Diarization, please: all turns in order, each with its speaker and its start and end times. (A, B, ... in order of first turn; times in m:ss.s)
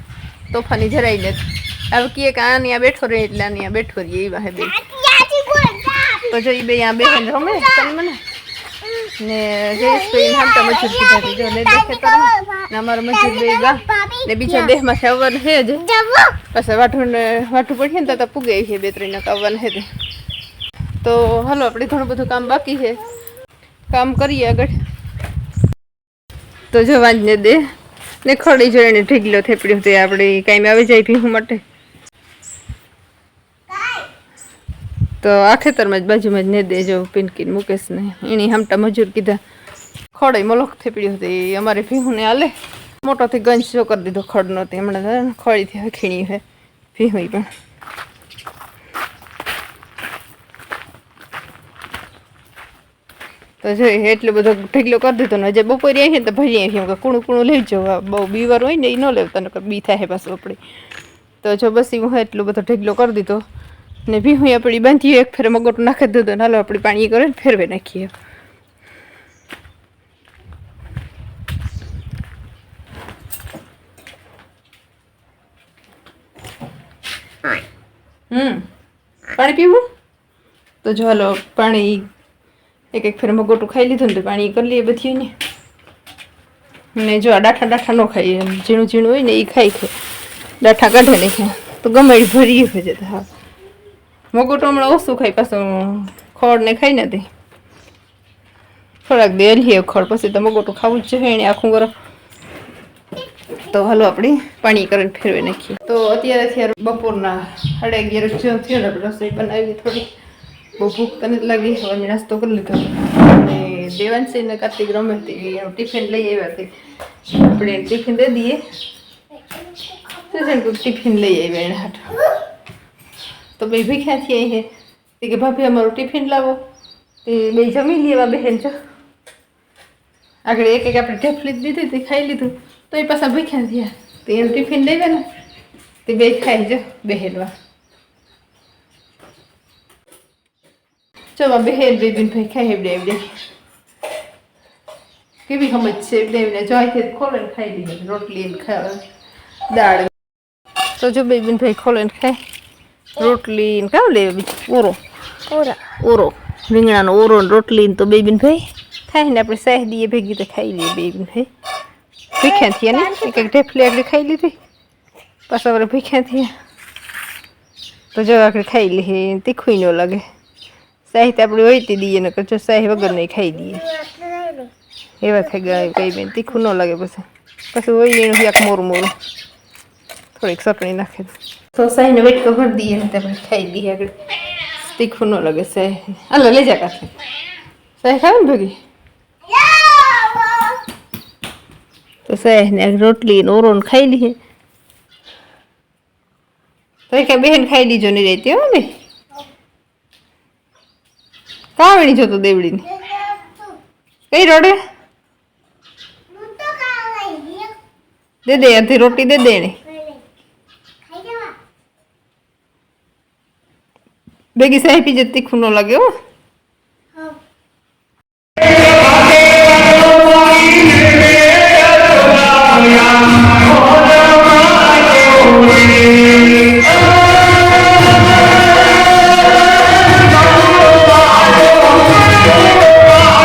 0:00.5-0:04.9 A
0:04.8-0:06.2 B
0:06.2-0:08.2 A
0:09.1-0:19.9 A
0:10.2-0:11.2 B
0:11.9-0:12.5 B
0:13.3-0:14.6 B
0:21.0-0:23.0 A
0:23.9-0:24.7 A
0:26.7-0:27.6 A
0:28.2-0:31.6 A
0:35.2-0:39.4 A
0:40.1-0:42.5 A
0:43.0-0:46.4 A
0:46.9-0:47.5 A
0:53.6-1:00.6 A
1:01.4-1:03.4 A
1:04.1-1:08.1 A
1:18.3-1:18.6 A
1:19.3-1:19.8 A
1:20.8-1:22.0 A
1:22.9-1:25.3 A
1:26.9-1:29.9 A
1:30.6-1:33.3 A
1:34.3-1:37.2 A
1:39.0-1:41.9 A
1:43.6-1:50.1 A
1:50.8-1:56.7 A
1:57.3-1:58.6 A
2:00.2-2:02.3 A
2:03.6-2:04.7 A
2:05.2-2:06.6 A
2:07.2-2:08.7 A
2:10.4-2:15.2 A
2:16.0-2:17.5 A
2:21.4-2:23.2 A
2:25.5-2:29.0 A
2:29.7-2:30.1 A
2:31.0-2:32.4 A
2:33.2-2:35.0 A
2:35.5-2:35.8 B
2:35.9-2:41.5 A
2:42.4-2:44.6 A
2:42.6-2:43.3 B
2:45.5-2:46.5 A
2:48.1-2:50.2 A
2:51.1-2:53.9 A
2:54.2-2:54.7 B
2:55.2-2:59.1 A
3:00.4-3:07.1 A
3:08.0-3:08.8 A
3:09.5-3:10.8 B
3:12.3-3:14.4 A
3:17.1-3:18.9 A
3:21.8-3:22.9 A
3:23.1-3:23.6 B
3:24.3-3:24.8 A
3:26.3-3:27.7 B
3:28.4-3:29.8 A
3:29.9-3:30.2 B
3:31.1-3:31.5 B
3:34.6-3:36.1 A